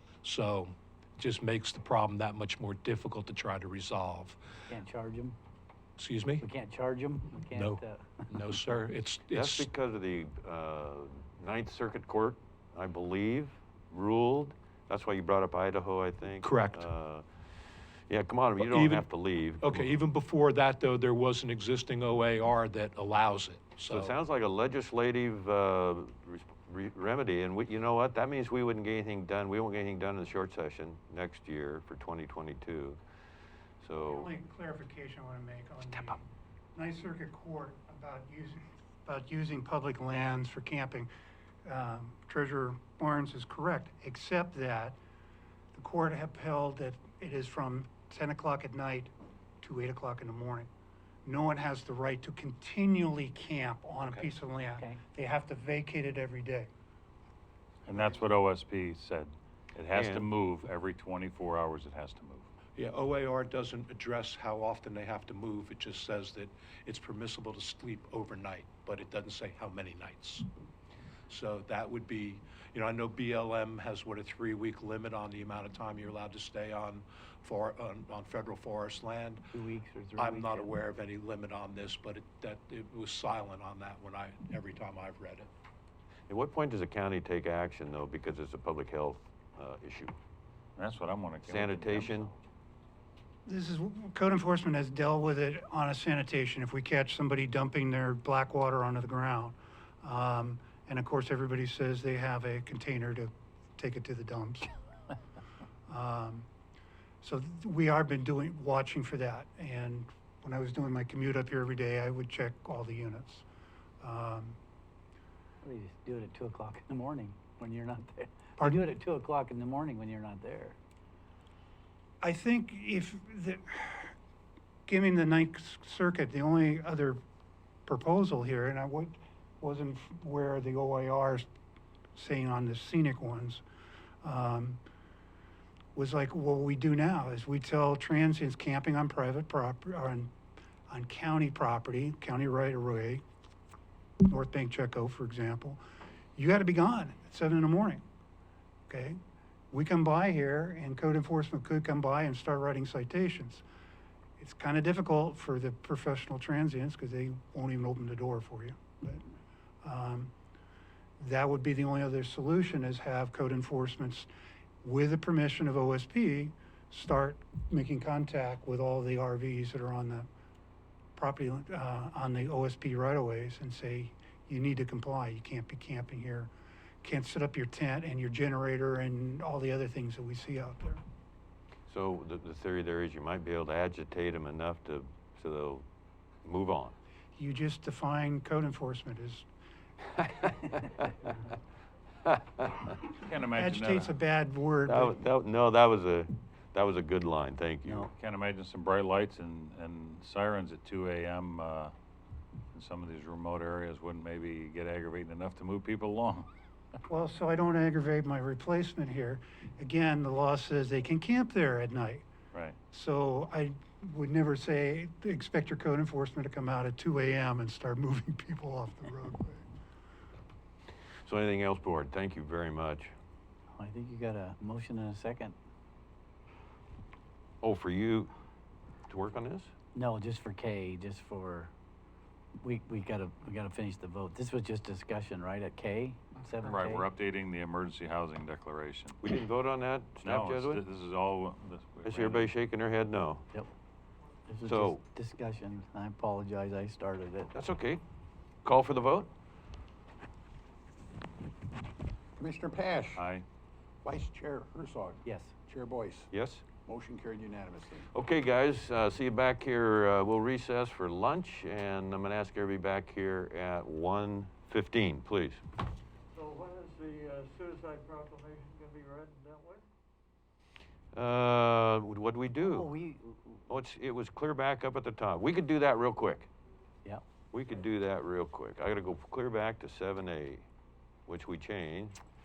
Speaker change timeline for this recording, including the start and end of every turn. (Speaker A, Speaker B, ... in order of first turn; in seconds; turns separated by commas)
Speaker A: 0.2-4.4, Speaker B: 4.7-5.4, Speaker A: 6.0-6.4, Speaker B: 6.4-8.3, Speaker A: 7.5-9.7, Speaker C: 9.3-17.2, Speaker A: 16.4-16.9, Speaker C: 18.1-19.9, Speaker A: 18.6-19.1, Speaker A: 19.6-24.2, Speaker C: 23.9-33.0, Speaker C: 33.8-34.3, Speaker D: 33.9-41.1, Speaker D: 41.6-45.0, Speaker D: 45.7-50.7, Speaker D: 51.2-56.7, Speaker E: 57.8-62.5, Speaker C: 59.9-60.2, Speaker A: 62.8-70.5, Speaker A: 71.3-79.4, Speaker B: 79.5-80.7, Speaker A: 80.2-85.5, Speaker C: 86.3-90.1, Speaker E: 90.8-92.3, Speaker C: 91.5-92.3, Speaker D: 93.5-104.7, Speaker D: 105.9-106.5, Speaker D: 107.2-113.4, Speaker D: 114.0-114.6, Speaker B: 115.6-120.8, Speaker D: 118.6-118.8, Speaker D: 122.2-124.1, Speaker D: 124.9-127.2, Speaker D: 127.9-131.5, Speaker D: 132.1-133.6, Speaker D: 134.2-134.8, Speaker D: 135.9-140.3, Speaker D: 140.9-143.2, Speaker D: 144.3-145.8, Speaker D: 146.3-148.0, Speaker D: 148.9-149.2, Speaker D: 149.7-153.6, Speaker D: 154.4-159.2, Speaker D: 159.8-160.3, Speaker D: 161.2-164.3, Speaker D: 164.8-170.3, Speaker D: 171.2-176.5, Speaker D: 177.0-181.0, Speaker C: 181.9-185.8, Speaker C: 186.4-186.9, Speaker D: 187.3-189.4, Speaker E: 193.2-194.1, Speaker D: 193.5-195.2, Speaker C: 194.9-198.0, Speaker E: 198.1-201.9, Speaker E: 202.7-206.5, Speaker D: 207.1-212.2, Speaker D: 212.9-219.6, Speaker C: 221.2-223.1, Speaker B: 223.7-225.6, Speaker C: 227.6-228.3, Speaker C: 229.1-229.7, Speaker B: 229.9-231.7, Speaker B: 232.6-237.1, Speaker E: 236.6-239.2, Speaker C: 239.2-240.8, Speaker E: 240.2-242.5, Speaker C: 242.0-243.4, Speaker B: 244.5-247.5, Speaker C: 244.7-245.0, Speaker C: 247.5-248.0, Speaker C: 248.6-249.3, Speaker F: 252.4-253.2, Speaker E: 253.1-253.4, Speaker F: 254.0-256.3, Speaker B: 255.2-255.5, Speaker C: 256.3-256.6, Speaker F: 256.8-258.1, Speaker C: 258.1-265.6, Speaker G: 266.4-269.8, Speaker C: 271.1-272.9, Speaker B: 272.6-273.6, Speaker C: 273.7-276.5, Speaker C: 277.5-280.6, Speaker C: 281.3-282.1